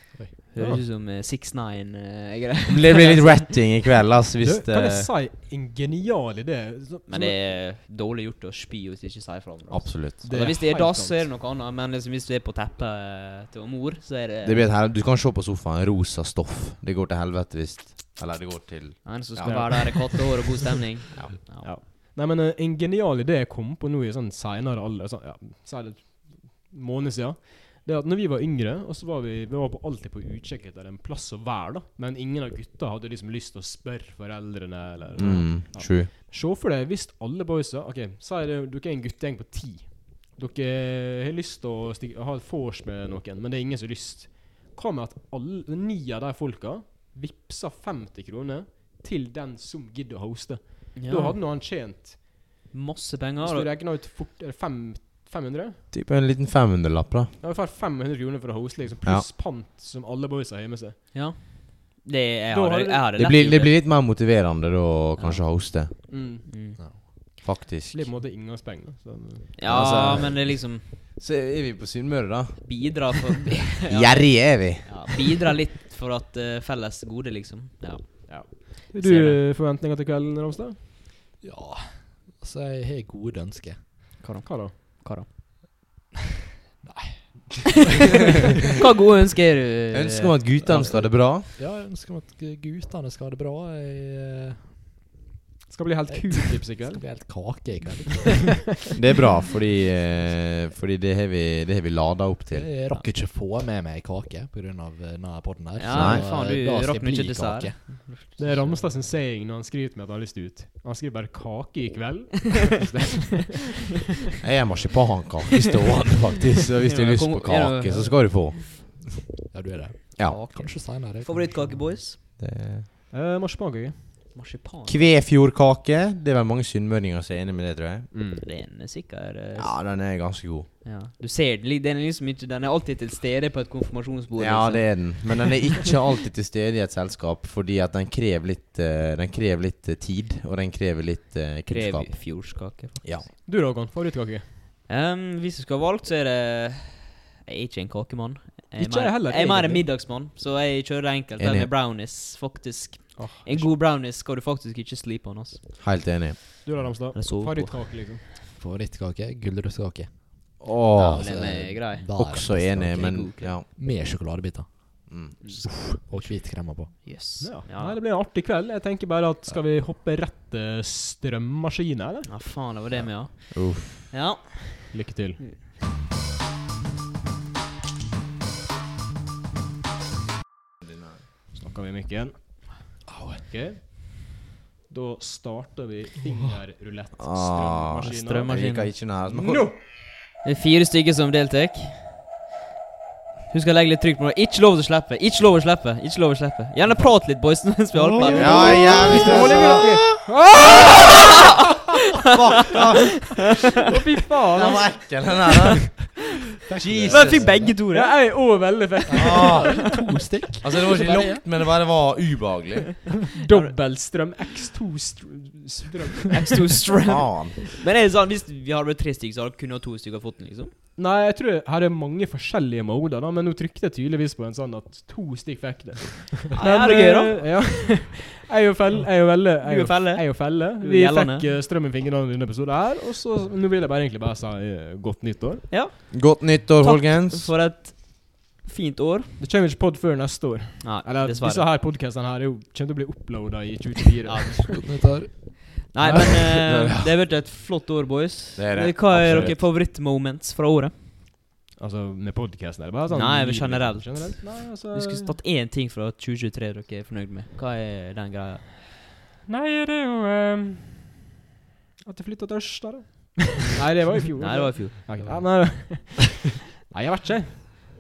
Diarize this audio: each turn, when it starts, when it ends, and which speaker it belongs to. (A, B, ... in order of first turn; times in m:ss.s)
0:00.5-0:03.5 A
0:00.6-0:00.8 B
0:02.7-0:05.1 C
0:04.4-0:07.4 B
0:07.1-0:14.7 A
0:09.7-0:10.3 C
0:10.2-0:11.2 B
0:14.4-0:20.1 C
0:19.0-0:21.8 A
0:19.4-0:20.1 B
0:21.3-0:52.4 B
0:35.2-0:35.9 A
0:35.2-0:36.1 C
0:51.0-0:51.4 A
0:52.7-0:53.7 A
0:53.4-0:55.8 B
0:55.9-0:57.3 C
0:57.4-1:01.0 B
1:01.1-1:03.8 A
1:02.5-1:03.0 B
1:03.1-1:05.9 C
1:05.2-1:07.1 A
1:06.1-1:06.9 B
1:07.4-1:08.0 C
1:07.9-1:09.5 B
1:09.6-1:10.9 A
1:09.6-1:13.1 C
1:12.6-1:19.4 A
1:13.8-1:15.2 C
1:18.3-1:20.8 B
1:21.4-1:23.8 D
1:24.2-1:25.3 A
1:24.4-1:24.7 B
1:26.8-1:27.8 D
1:28.8-1:30.4 A
1:29.9-1:31.5 C
1:30.6-1:34.8 D
1:35.7-1:37.1 B
1:36.1-1:38.7 D
1:38.9-1:42.8 C
1:42.5-1:48.1 D
1:45.8-1:48.8 A
1:45.9-1:46.2 C
1:48.4-1:53.9 B
1:54.4-1:58.6 C
1:56.8-1:58.6 A
1:59.5-2:02.0 D
2:00.2-2:02.2 A
2:02.4-2:02.9 C
2:03.1-2:04.3 B
2:04.3-2:05.2 A
2:04.8-2:08.1 C
2:08.1-2:08.4 B
2:08.4-2:09.8 A
2:09.6-2:10.7 C
2:10.8-2:15.5 A
2:14.4-2:23.3 C
2:21.7-2:23.3 A
2:23.4-2:24.6 B
2:24.9-2:35.7 A
2:28.8-2:29.9 B
2:31.4-2:31.7 C
2:33.1-2:33.7 B
2:35.8-2:36.4 C
2:36.6-2:38.2 B
2:37.1-2:37.9 A
2:38.6-2:47.2 D
2:40.6-2:43.7 C
2:41.1-2:43.6 A
2:45.1-2:45.6 C
2:45.4-2:48.0 A
2:47.4-2:52.3 B
2:52.2-2:55.6 A
2:53.5-2:54.1 C
2:54.9-2:55.5 B
3:00.8-3:01.2 C
3:01.5-3:04.3 B
3:03.1-3:03.4 D
3:04.9-3:08.5 B
3:07.2-3:09.7 C
3:08.0-3:12.3 A
3:09.3-3:09.7 B
3:13.5-3:19.8 A
3:17.9-3:21.3 B
3:18.4-3:20.2 C
3:18.6-3:19.7 D
3:21.0-3:21.3 A
3:22.1-3:23.4 C
3:23.8-3:25.3 B
3:24.5-3:26.2 C
3:26.7-3:27.8 D
3:26.8-3:27.7 C
3:27.1-3:28.3 A
3:27.6-3:30.1 B
3:29.0-3:31.4 D
3:29.2-3:29.8 C
3:30.6-3:33.2 C
3:33.3-3:33.8 A
3:33.4-3:36.7 B
3:36.3-3:40.7 A
3:37.0-3:37.6 C
3:41.0-3:55.8 B
3:46.5-3:47.9 A
3:49.6-3:51.5 A
3:55.7-3:59.4 A
3:56.1-3:57.5 C
3:59.4-4:04.8 B
4:00.8-4:01.7 A
4:04.2-4:11.1 A
4:04.8-4:06.2 D
4:06.5-4:07.1 C
4:08.6-4:09.6 C
4:11.8-4:15.3 B
4:13.1-4:18.7 A
4:19.5-4:21.1 B
4:22.0-4:27.7 B
4:24.4-4:25.4 A
4:25.2-4:26.0 D